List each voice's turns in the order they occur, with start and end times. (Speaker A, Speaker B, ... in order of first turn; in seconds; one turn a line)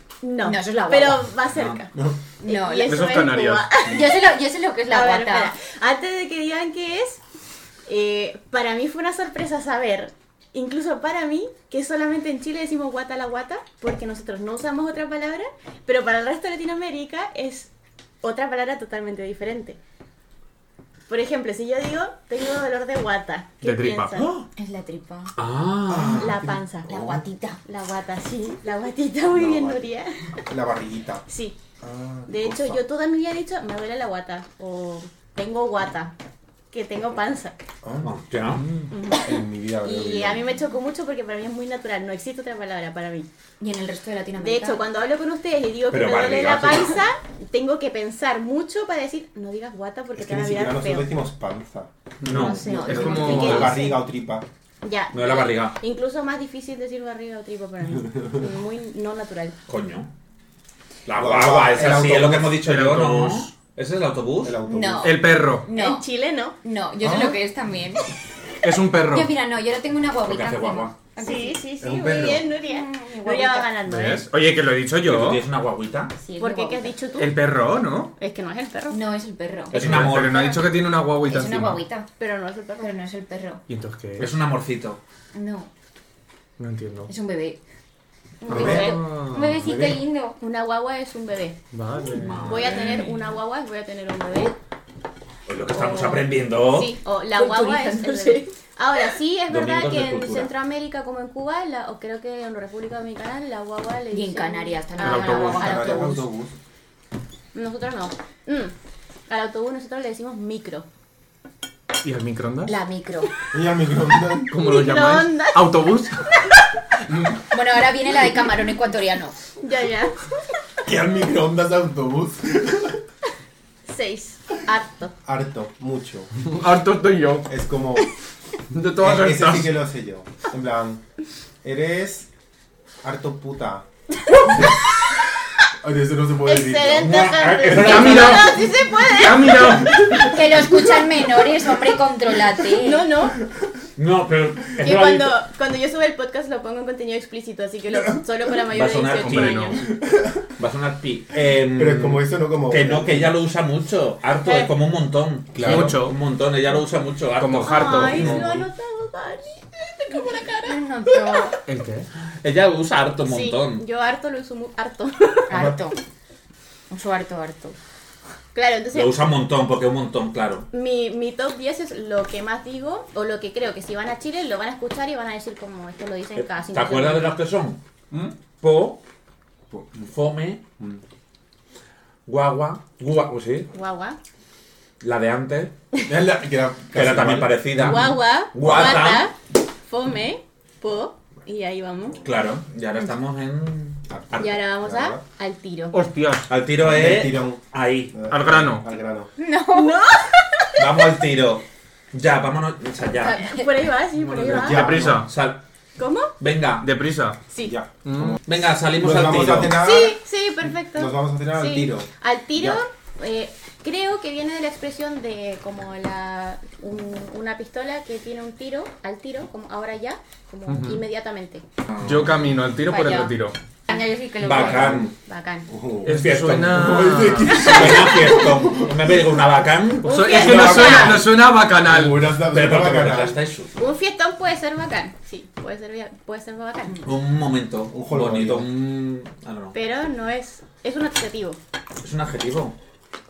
Speaker A: 0.2-4.1
Speaker B: 0.4-1.3
Speaker C: 1.5-1.8
Speaker B: 2.4-5.5
Speaker D: 2.8-3.7
Speaker A: 4.9-7.2
Speaker A: 7.9-17.7
Speaker A: 18.2-19.8
Speaker A: 21.1-24.3
Speaker D: 23.6-24.2
Speaker C: 24.2-24.4
Speaker B: 24.6-25.3
Speaker C: 25.4-26.4
Speaker E: 25.9-26.6
Speaker A: 26.1-27.0
Speaker B: 26.9-27.6
Speaker A: 27.6-30.2
Speaker E: 29.3-29.9
Speaker E: 30.5-31.2
Speaker A: 31.3-31.6
Speaker E: 31.8-32.8
Speaker A: 32.3-36.1
Speaker A: 36.7-37.6
Speaker E: 37.8-38.2
Speaker C: 38.0-38.9
Speaker A: 38.9-43.3
Speaker E: 39.1-40.5
Speaker B: 43.6-44.9
Speaker A: 44.4-51.1
Speaker C: 45.9-47.0
Speaker E: 50.1-51.9
Speaker D: 52.2-53.8
Speaker C: 52.2-52.6
Speaker A: 52.3-54.0
Speaker B: 52.6-53.5
Speaker E: 52.7-54.5
Speaker A: 54.8-59.6
Speaker C: 55.1-55.8
Speaker E: 58.0-58.4
Speaker C: 59.7-60.1
Speaker C: 61.0-64.6
Speaker E: 61.1-62.7
Speaker D: 62.6-63.5
Speaker E: 64.4-65.2
Speaker B: 64.7-66.1
Speaker D: 65.0-65.7
Speaker A: 65.7-66.5
Speaker B: 66.6-68.0
Speaker D: 67.0-67.3
Speaker D: 68.6-69.3
Speaker B: 69.1-73.8
Speaker C: 70.2-71.0
Speaker A: 71.2-74.3
Speaker E: 71.8-72.5
Speaker D: 73.8-75.4
Speaker C: 75.0-76.1
Speaker B: 76.2-76.9
Speaker A: 76.4-77.3
Speaker D: 77.2-78.1
Speaker A: 78.2-79.0
Speaker B: 78.9-80.2
Speaker C: 79.7-80.6
Speaker D: 79.7-81.8
Speaker B: 81.2-82.1
Speaker A: 82.2-82.9
Speaker B: 82.8-83.6
Speaker D: 83.7-84.3
Speaker C: 84.2-85.0
Speaker B: 85.3-85.7
Speaker D: 86.6-87.1
Speaker B: 87.1-87.6
Speaker A: 88.4-89.0
Speaker B: 88.5-90.4
Speaker E: 88.5-90.0
Speaker D: 88.5-89.5
Speaker A: 90.4-91.6
Speaker D: 91.7-92.5
Speaker C: 92.1-93.1
Speaker A: 92.4-94.5
Speaker C: 95.5-97.0
Speaker A: 95.7-106.2
Speaker B: 97.3-98.5
Speaker C: 99.5-100.5
Speaker B: 104.1-106.1
Speaker D: 105.0-105.7
Speaker E: 105.3-106.5
Speaker A: 107.5-108.7
Speaker A: 109.3-110.9
Speaker D: 112.0-112.8
Speaker B: 112.7-113.3
Speaker E: 113.5-114.5
Speaker D: 114.5-116.3
Speaker A: 114.6-115.9
Speaker B: 117.5-119.4
Speaker A: 119.6-120.2
Speaker E: 120.8-123.0
Speaker A: 123.9-125.1
Speaker E: 125.2-126.3
Speaker D: 126.4-127.5
Speaker E: 127.5-128.1
Speaker D: 128.7-129.8
Speaker E: 129.0-131.0
Speaker E: 131.6-132.3
Speaker E: 133.0-133.8
Speaker E: 135.8-137.2
Speaker A: 136.4-139.7
Speaker C: 137.0-138.6
Speaker D: 137.7-138.6
Speaker D: 139.2-140.2
Speaker B: 140.2-143.1
Speaker A: 142.8-143.4
Speaker C: 143.9-145.4
Speaker A: 144.8-149.8
Speaker C: 148.7-149.8
Speaker D: 149.2-149.8
Speaker E: 150.0-150.4
Speaker C: 150.6-158.6
Speaker E: 151.7-153.3
Speaker A: 154.4-154.7
Speaker E: 155.5-156.0
Speaker D: 155.6-156.2
Speaker D: 157.4-158.5
Speaker A: 157.6-161.5
Speaker B: 160.6-161.6
Speaker D: 161.7-162.1
Speaker C: 162.4-163.8
Speaker A: 163.3-165.7
Speaker B: 165.5-165.9
Speaker E: 165.5-165.8
Speaker B: 166.9-167.8
Speaker A: 168.5-169.1
Speaker C: 168.9-170.7
Speaker A: 170.7-177.4
Speaker C: 176.4-177.8
Speaker C: 178.6-179.0
Speaker E: 179.7-180.1
Speaker C: 180.1-180.6
Speaker C: 182.3-183.7
Speaker A: 183.7-184.2
Speaker C: 185.0-185.7
Speaker E: 186.1-187.8
Speaker C: 186.9-189.3
Speaker A: 187.8-192.2
Speaker E: 192.1-192.3
Speaker C: 192.2-194.6
Speaker E: 194.1-195.2
Speaker A: 194.4-196.0
Speaker D: 195.9-196.4
Speaker C: 196.5-198.1
Speaker E: 196.8-197.6
Speaker E: 198.1-199.3
Speaker D: 198.3-198.8
Speaker B: 199.4-200.0
Speaker A: 199.7-200.4
Speaker C: 200.8-203.5
Speaker B: 203.2-203.8
Speaker A: 203.4-205.0
Speaker C: 204.1-205.6
Speaker E: 204.4-205.3
Speaker D: 204.7-205.3
Speaker A: 206.0-206.3
Speaker C: 206.4-206.9
Speaker D: 206.8-207.4
Speaker A: 207.5-207.8
Speaker E: 207.6-208.4
Speaker D: 208.0-208.4
Speaker C: 208.4-209.8
Speaker E: 209.0-212.8
Speaker A: 209.8-221.6
Speaker D: 220.7-221.0
Speaker C: 221.9-222.4
Speaker D: 222.0-223.6
Speaker B: 222.9-223.3
Speaker B: 223.9-224.3
Speaker A: 223.9-225.7
Speaker C: 224.4-225.1
Speaker E: 224.4-225.1
Speaker E: 225.7-229.3
Speaker D: 226.0-227.9
Speaker C: 226.1-231.3
Speaker D: 230.0-232.2
Speaker A: 230.1-231.3
Speaker E: 230.3-231.2
Speaker E: 231.8-233.4
Speaker C: 232.5-233.8
Speaker A: 233.8-237.0
Speaker C: 237.0-239.8
Speaker E: 237.9-238.7
Speaker A: 239.7-241.6
Speaker C: 242.0-242.7